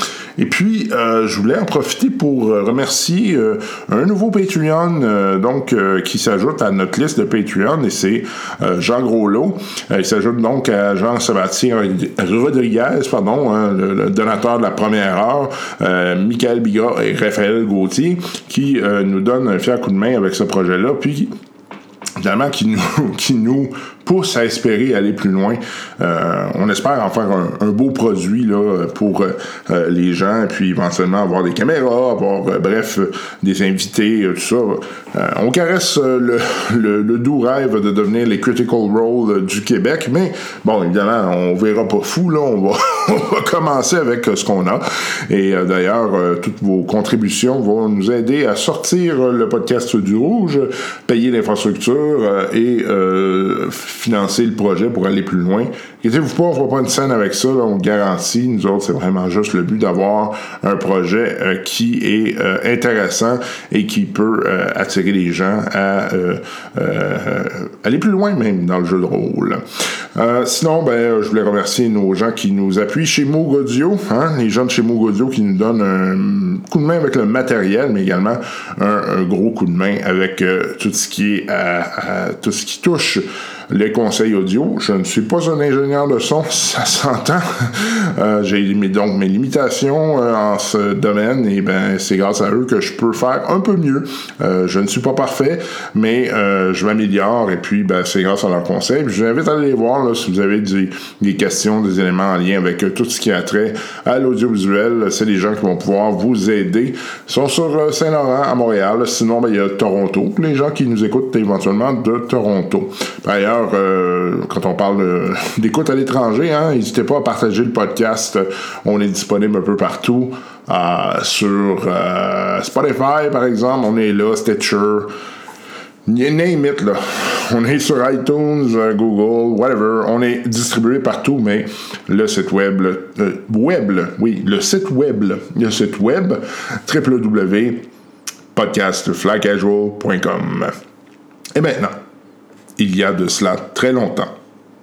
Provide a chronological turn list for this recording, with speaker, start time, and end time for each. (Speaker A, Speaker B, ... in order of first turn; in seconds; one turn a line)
Speaker A: 0.4-21.3
Speaker A: 22.2-69.6
Speaker A: 70.1-125.1
Speaker A: 126.0-137.9
Speaker A: 138.5-140.7
Speaker A: 141.5-142.0
Speaker A: 142.8-144.3